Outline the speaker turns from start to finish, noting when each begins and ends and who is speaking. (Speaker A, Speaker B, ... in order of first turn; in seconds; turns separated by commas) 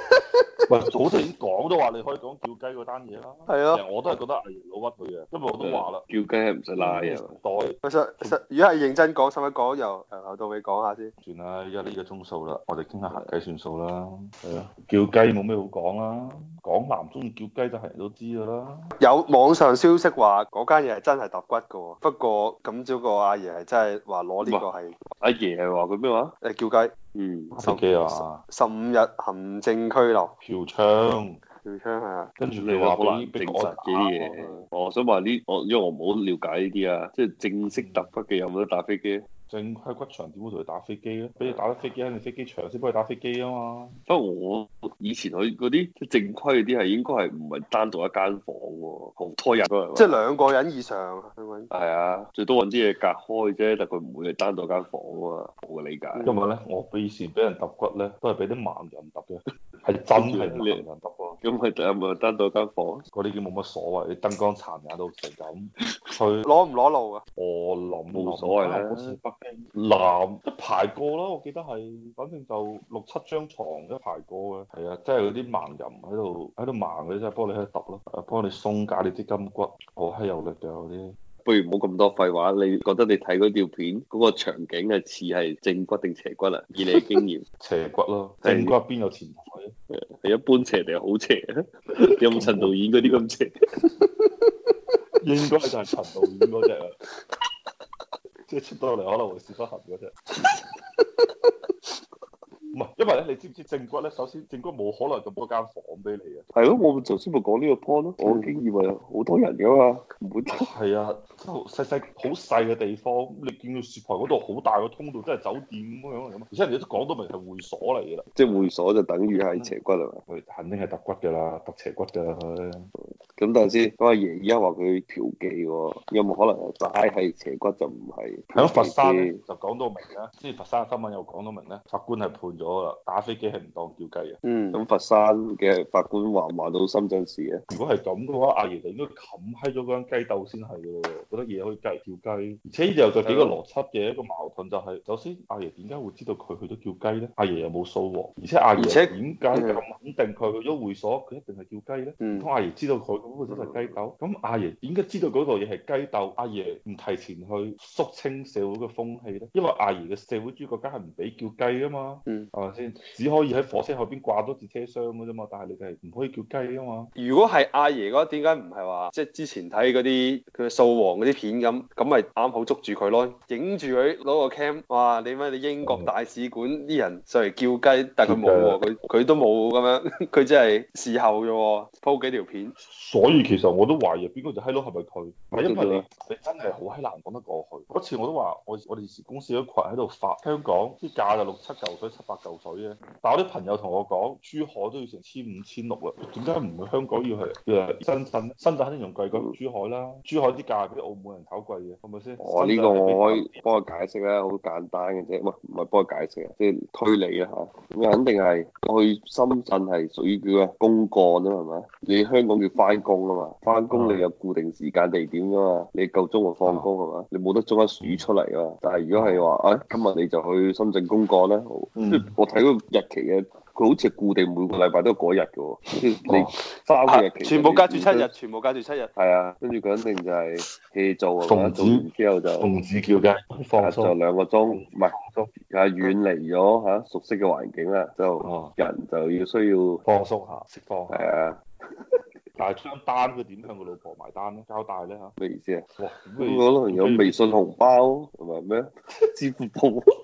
Speaker A: 0.7-6.0, Speaker B: 3.5-3.8, Speaker C: 5.6-7.4, Speaker A: 6.8-8.4, Speaker B: 7.8-11.1, Speaker A: 11.2-18.9, Speaker B: 19.0-25.0, Speaker C: 24.4-24.7, Speaker C: 25.2-26.4, Speaker B: 26.4-26.9, Speaker C: 27.1-27.6, Speaker A: 27.5-28.4, Speaker B: 27.6-30.3, Speaker A: 30.4-31.4, Speaker B: 31.6-32.3, Speaker A: 32.4-34.5, Speaker C: 32.6-39.3, Speaker A: 37.7-38.1, Speaker A: 39.5-43.9, Speaker C: 44.1-50.2, Speaker B: 50.0-51.7, Speaker C: 51.7-56.3, Speaker A: 56.2-61.4, Speaker C: 60.1-60.9, Speaker C: 61.4-63.0, Speaker A: 63.1-66.5, Speaker B: 66.5-67.2, Speaker A: 67.4-81.2, Speaker C: 68.1-69.2, Speaker C: 81.5-87.5, Speaker A: 87.6-89.8, Speaker C: 88.4-88.8, Speaker C: 89.9-93.5, Speaker A: 92.3-92.8, Speaker A: 95.2-97.0, Speaker A: 98.5-100.2, Speaker A: 102.7-106.5, Speaker C: 106.5-110.7, Speaker A: 110.5-118.7, Speaker C: 118.3-120.2, Speaker A: 119.3-119.7, Speaker A: 120.3-122.9, Speaker C: 123.4-129.4, Speaker A: 128.6-134.4, Speaker B: 134.4-134.8, Speaker C: 134.7-137.6, Speaker A: 137.7-167.1, Speaker C: 143.3-143.5, Speaker B: 148.8-149.2, Speaker C: 149.5-149.8, Speaker B: 152.2-152.5, Speaker C: 153.5-154.0, Speaker B: 162.3-162.5, Speaker B: 167.2-182.7, Speaker A: 175.8-176.1, Speaker A: 178.2-178.8, Speaker A: 182.8-203.6, Speaker C: 185.6-186.1, Speaker C: 202.4-228.3, Speaker A: 213.9-214.2, Speaker A: 216.6-216.9, Speaker A: 218.0-218.3, Speaker A: 219.1-219.5, Speaker A: 221.9-222.3, Speaker A: 226.3-226.5, Speaker B: 227.1-229.1, Speaker C: 229.2-232.7, Speaker A: 231.4-232.1, Speaker A: 232.6-234.1, Speaker C: 233.8-235.2, Speaker A: 234.7-235.5, Speaker C: 235.7-240.0, Speaker A: 238.4-238.8, Speaker A: 240.1-241.3, Speaker C: 241.1-241.6, Speaker A: 242.6-245.3, Speaker C: 245.4-245.9, Speaker A: 246.0-247.6, Speaker C: 246.4-250.1